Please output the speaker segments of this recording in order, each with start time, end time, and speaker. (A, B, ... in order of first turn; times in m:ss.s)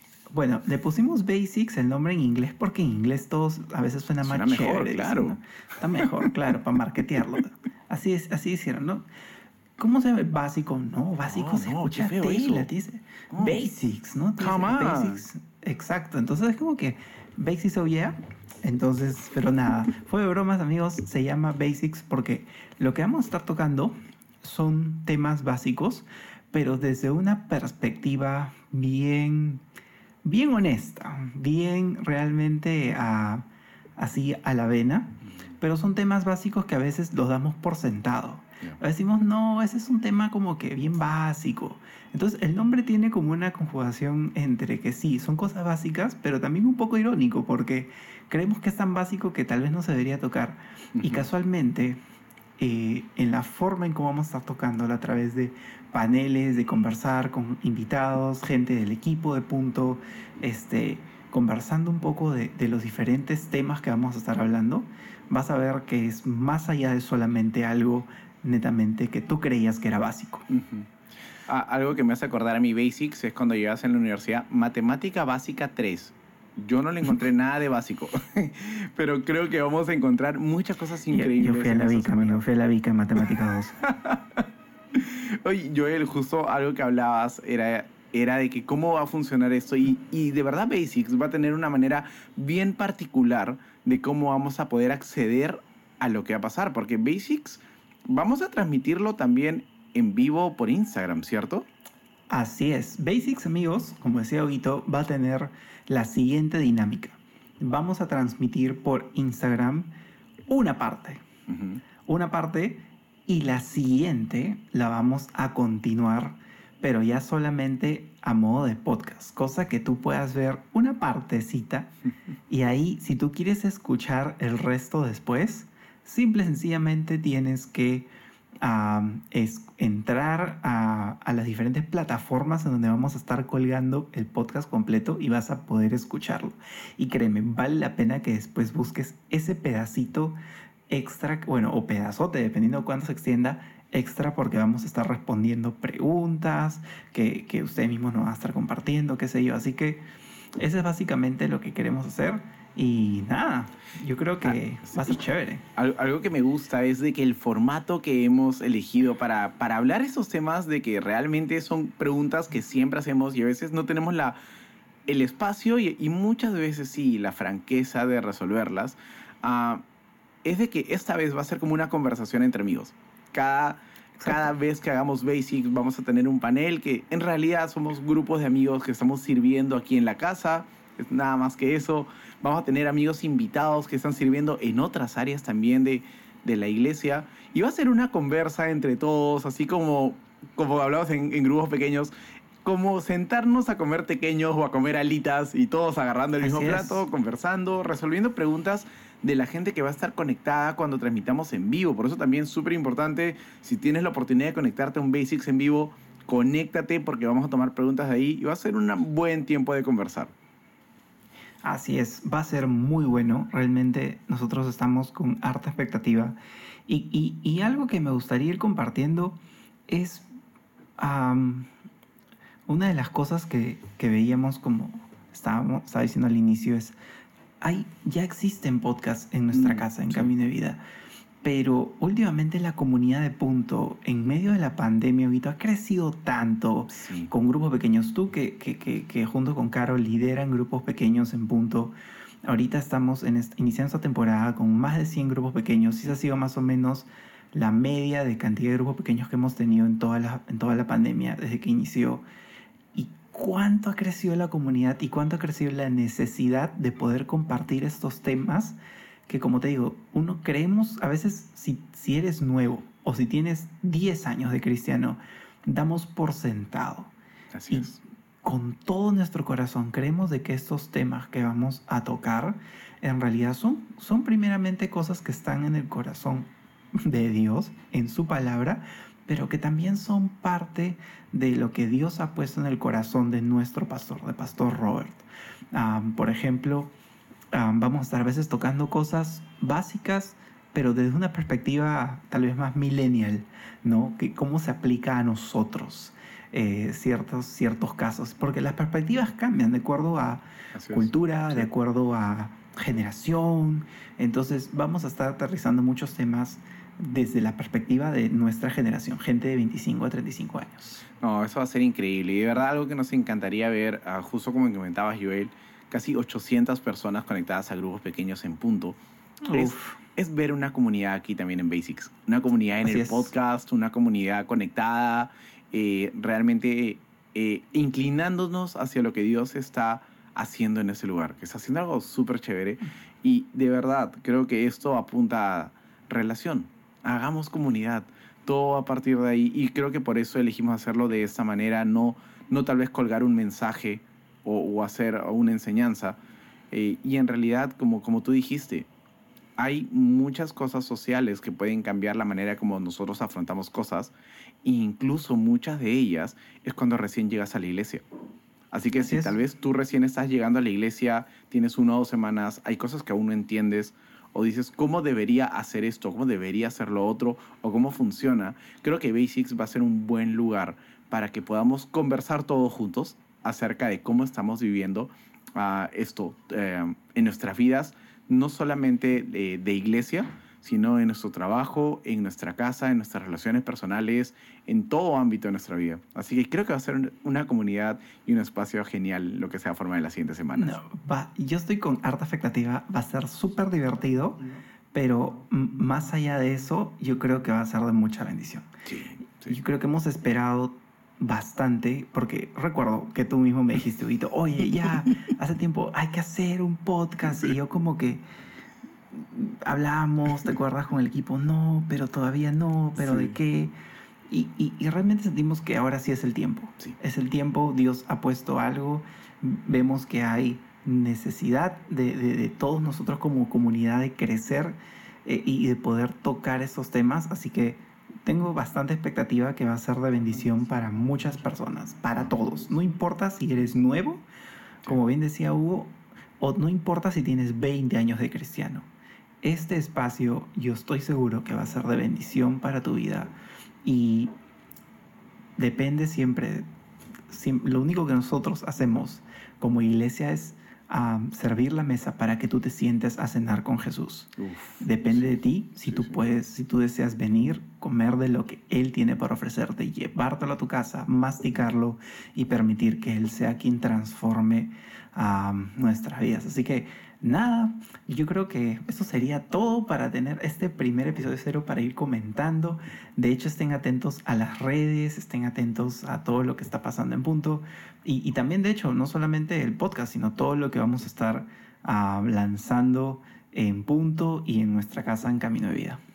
0:00.3-0:09.0 A
0:04.2-0:05.4 B
0:06.0-0:06.2 B
0:09.8-0:29.6 A
0:11.2-0:12.7 B
0:13.3-0:13.6 B
0:14.4-0:15.2 B
0:30.2-0:33.4 A
0:34.0-0:52.0 A
0:51.0-0:51.3 B
0:52.6-1:10.4 A
1:10.5-1:10.9 B
1:11.5-1:22.4 B
1:21.1-1:23.8 A
1:23.8-1:41.6 B
1:42.3-1:49.9 A
1:50.5-1:51.2 A
1:51.5-1:51.8 B
1:52.0-2:01.9 A
2:02.5-2:08.1 A
2:08.6-2:20.4 A
2:20.9-2:30.0 A
2:30.6-2:35.6 A
2:34.4-2:35.2 B
2:35.8-2:44.4 B
2:45.1-2:49.8 B
2:50.4-3:12.1 B
2:54.2-2:54.5 A
3:12.6-3:30.3 B
3:16.4-3:17.0 A
3:31.6-3:36.4 A
3:36.9-3:40.2 A
3:41.0-3:41.7 A
3:42.7-3:47.0 A
3:47.6-3:50.8 A
3:49.5-3:50.3 B
3:51.4-4:01.9 A
3:56.9-3:57.3 B
4:02.4-4:12.2 A
4:12.9-4:27.1 A
4:27.5-4:28.0 B
4:27.7-4:46.9 A
4:47.5-5:11.1 A
5:00.7-5:01.7 B
5:11.2-5:19.0 B
5:19.4-5:20.0 A
5:19.5-5:46.2 B
5:22.8-5:23.3 A
5:46.7-5:48.9 B
5:49.6-5:54.1 B
5:54.6-5:58.0 B
5:58.7-6:30.8 B
5:59.0-5:59.4 A
6:30.5-6:38.7 A
6:38.8-6:39.5 B
6:39.4-6:48.2 A
6:49.1-6:53.7 A
6:53.0-6:53.3 B
6:54.3-7:14.3 A
7:14.8-7:18.9 A
7:19.4-7:24.3 A
7:25.6-7:26.7 A
7:27.3-8:06.0 A
7:34.4-7:36.2 B